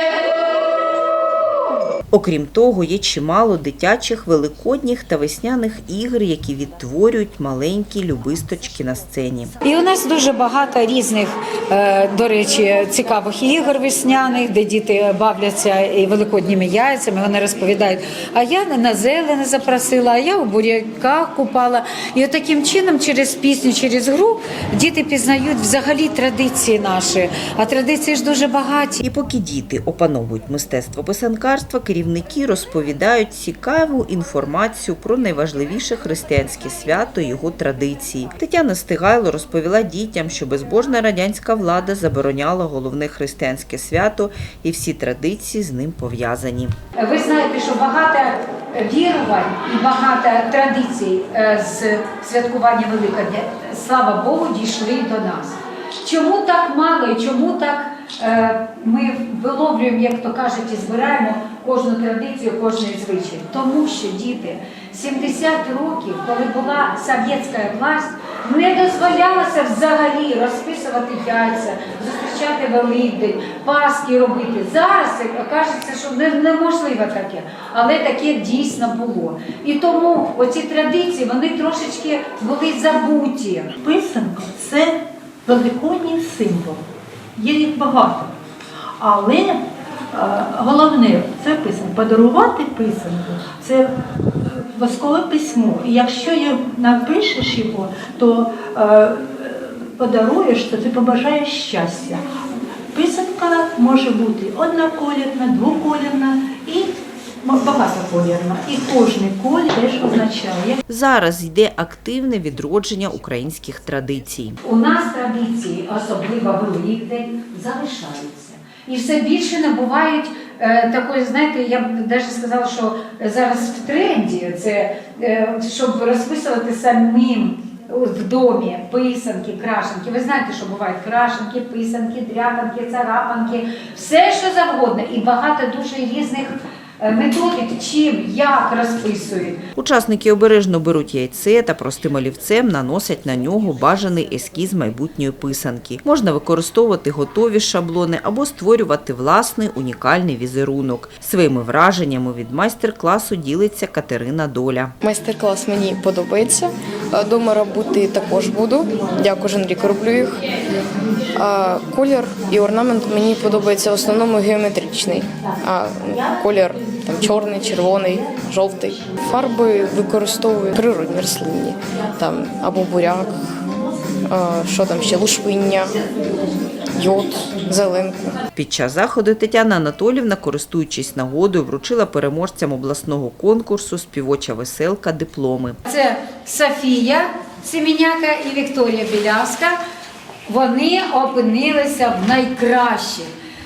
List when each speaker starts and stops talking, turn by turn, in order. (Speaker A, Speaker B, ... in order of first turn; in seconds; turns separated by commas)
Speaker A: 2.1-9.5, Speaker B: 9.6-29.0, Speaker A: 29.0-46.7, Speaker B: 47.0-83.7, Speaker C: 83.8-85.0, Speaker C: 85.5-86.8, Speaker C: 87.4-88.3, Speaker C: 89.0-89.6, Speaker C: 90.1-102.2, Speaker C: 102.9-110.8, Speaker A: 110.9-114.6, Speaker B: 114.6-139.6, Speaker A: 139.8-154.9, Speaker D: 155.0-160.6, Speaker D: 161.3-173.6, Speaker D: 174.3-175.9, Speaker D: 176.9-178.4, Speaker A: 178.6-185.8, Speaker B: 185.9-189.8, Speaker B: 190.5-193.3